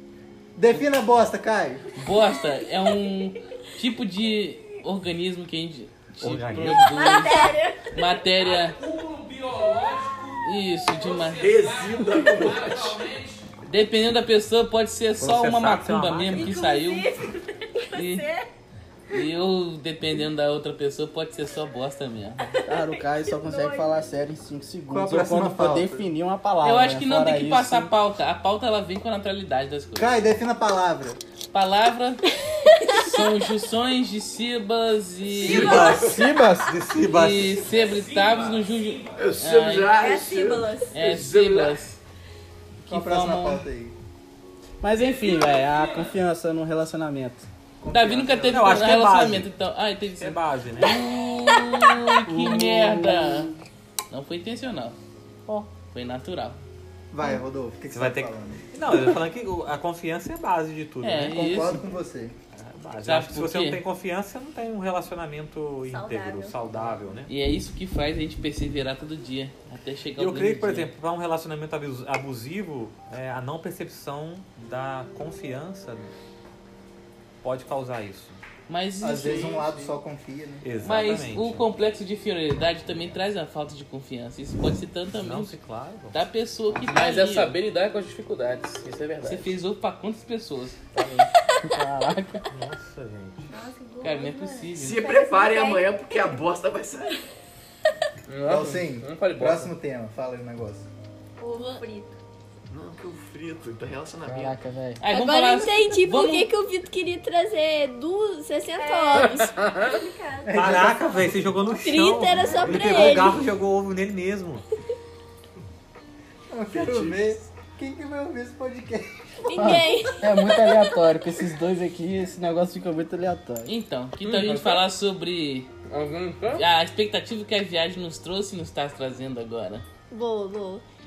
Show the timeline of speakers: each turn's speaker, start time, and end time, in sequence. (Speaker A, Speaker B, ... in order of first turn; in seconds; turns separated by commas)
Speaker A: 0.6-1.9, Speaker B: 2.0-7.4, Speaker C: 2.3-3.0, Speaker D: 6.2-7.0, Speaker C: 7.0-8.0, Speaker E: 7.0-7.6, Speaker B: 7.9-8.8, Speaker F: 8.3-13.5, Speaker B: 10.4-11.4, Speaker G: 11.3-13.0, Speaker B: 13.7-17.1, Speaker D: 15.2-16.7, Speaker C: 16.3-18.5, Speaker B: 17.9-18.3, Speaker B: 19.1-22.5, Speaker C: 22.6-24.0, Speaker H: 22.7-27.9, Speaker A: 24.9-26.1, Speaker B: 26.6-30.2, Speaker A: 30.0-31.2, Speaker B: 31.5-32.2, Speaker B: 33.0-35.9, Speaker D: 35.3-37.7, Speaker C: 35.4-36.2, Speaker G: 35.5-36.3, Speaker H: 35.5-36.8, Speaker B: 37.1-40.0, Speaker F: 37.7-39.2, Speaker G: 39.2-41.4, Speaker C: 39.9-41.0, Speaker B: 40.9-42.0, Speaker F: 41.1-41.8, Speaker B: 42.8-43.6, Speaker A: 42.9-44.0, Speaker H: 44.8-47.5, Speaker F: 45.0-45.9, Speaker A: 47.8-48.7, Speaker B: 47.9-53.5, Speaker D: 48.5-49.5, Speaker D: 50.2-51.0, Speaker H: 52.3-53.6, Speaker B: 54.1-55.0, Speaker B: 55.9-56.6, Speaker A: 57.1-58.7, Speaker D: 57.9-61.8, Speaker B: 61.0-61.8, Speaker A: 61.4-62.4, Speaker D: 62.5-67.3, Speaker B: 63.0-63.8, Speaker C: 65.9-66.6, Speaker B: 67.3-70.9, Speaker D: 70.2-76.1, Speaker D: 77.4-78.4, Speaker B: 78.7-79.7, Speaker A: 79.0-80.7, Speaker G: 79.5-79.9, Speaker D: 80.6-81.7, Speaker B: 80.8-85.6, Speaker D: 85.1-86.2, Speaker B: 86.1-87.5, Speaker F: 86.9-89.5, Speaker B: 89.2-91.3, Speaker H: 91.7-92.5, Speaker D: 92.5-93.5, Speaker C: 93.5-96.4, Speaker B: 94.0-95.1, Speaker G: 94.8-97.2, Speaker F: 98.3-99.7, Speaker A: 98.5-100.9, Speaker C: 101.4-102.2, Speaker E: 101.5-101.8, Speaker G: 102.7-104.6, Speaker H: 104.3-105.0, Speaker B: 105.0-106.5, Speaker E: 105.1-109.5, Speaker C: 108.8-110.8, Speaker F: 109.1-110.0, Speaker A: 110.5-111.8, Speaker D: 110.5-114.6, Speaker E: 111.8-113.5, Speaker A: 116.5-119.8, Speaker G: 116.7-117.4, Speaker E: 119.5-121.3, Speaker H: 119.6-123.7, Speaker B: 123.7-125.7, Speaker F: 124.2-124.8, Speaker F: 125.9-126.6, Speaker B: 126.5-129.8, Speaker E: 130.1-130.8